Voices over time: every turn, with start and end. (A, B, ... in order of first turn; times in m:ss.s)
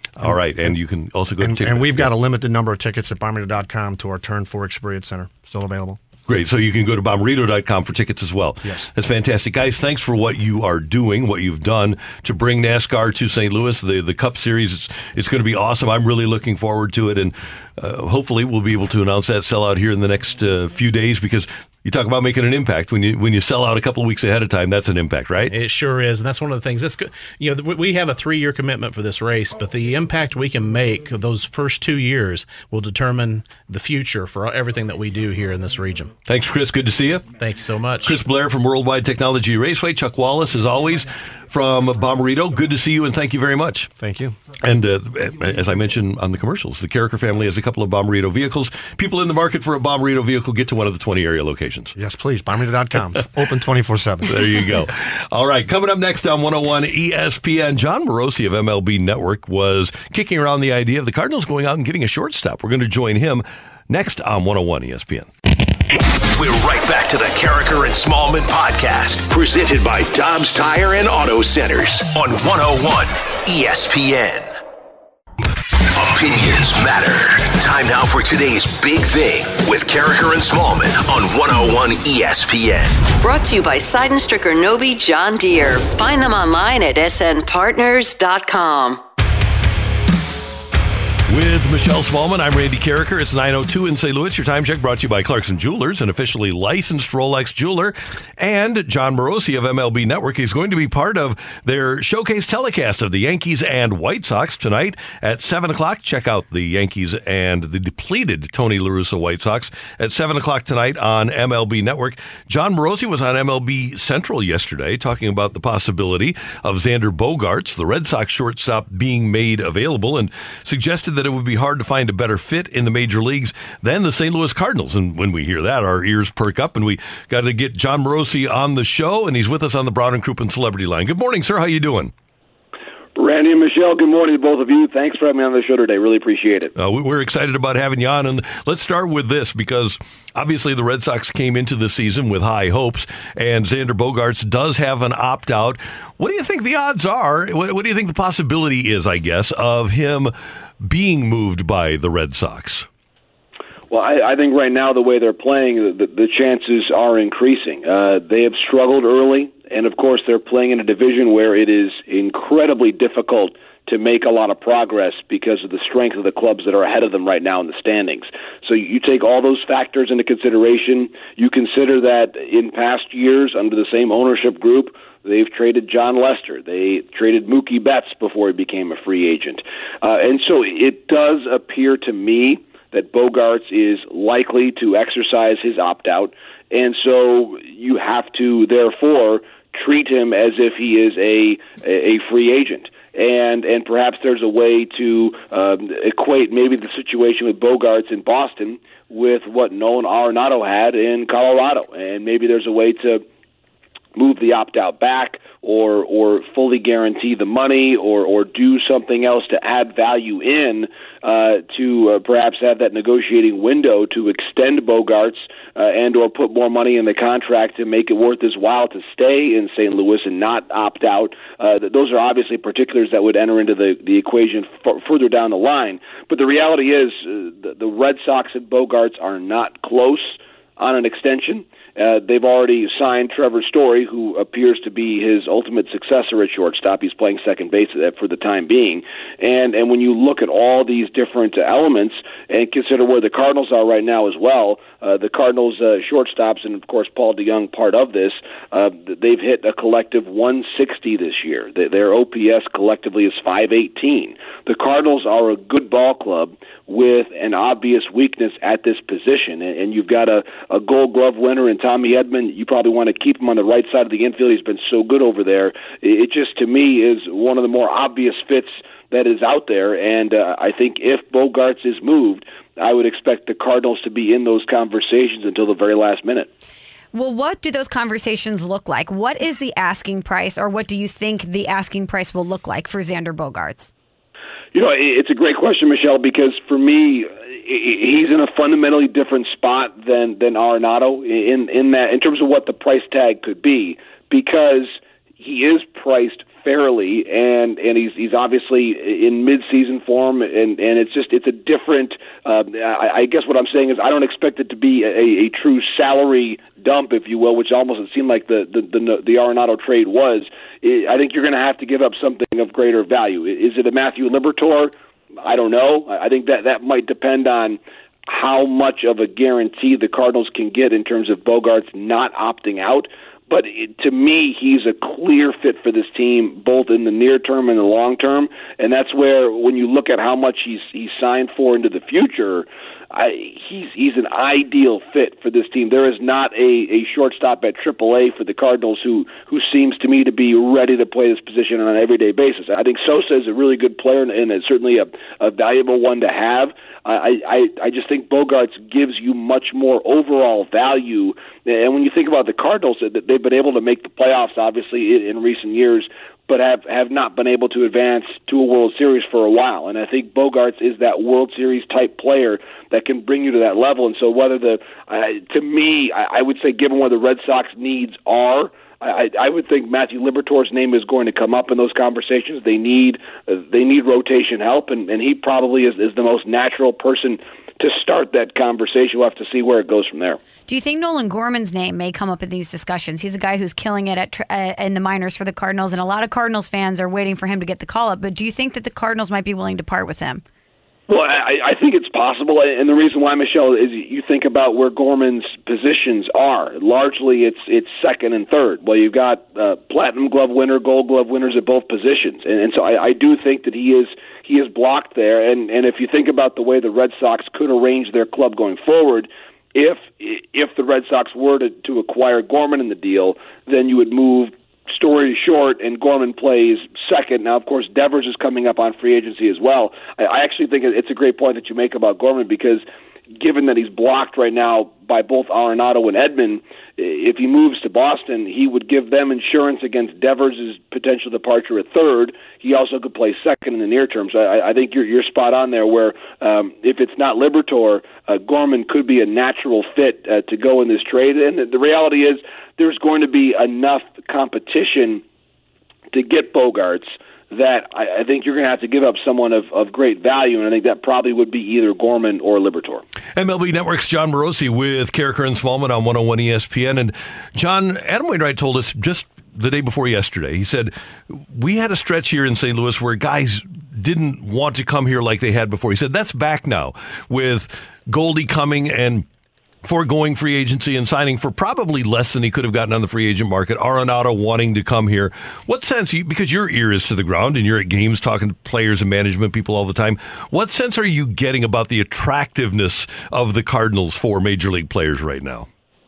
0:00.2-0:02.1 A
0:00.2-0:00.7 B
0:01.4-0:06.0 B
0:06.3-0:25.5 A
0:25.5-0:36.1 C
0:36.2-0:37.3 A
0:37.4-0:38.2 C
0:38.0-0:43.9 A
0:44.0-0:44.4 B
0:44.6-0:51.9 A
0:52.0-0:54.5 B
0:54.2-1:05.3 A
1:06.3-1:14.6 D
1:15.9-1:23.0 D
1:23.2-1:29.0 E
1:31.3-2:12.1 A
2:13.2-2:16.7 F
2:16.8-2:32.9 A
2:33.9-3:23.2 F
3:24.2-4:36.5 F
4:37.1-4:43.9 G
4:44.7-6:20.4 F
6:20.7-6:30.4 G
6:31.1-7:25.2 F
7:26.1-7:33.0 F
7:33.4-7:49.3 A
7:49.8-8:05.7 A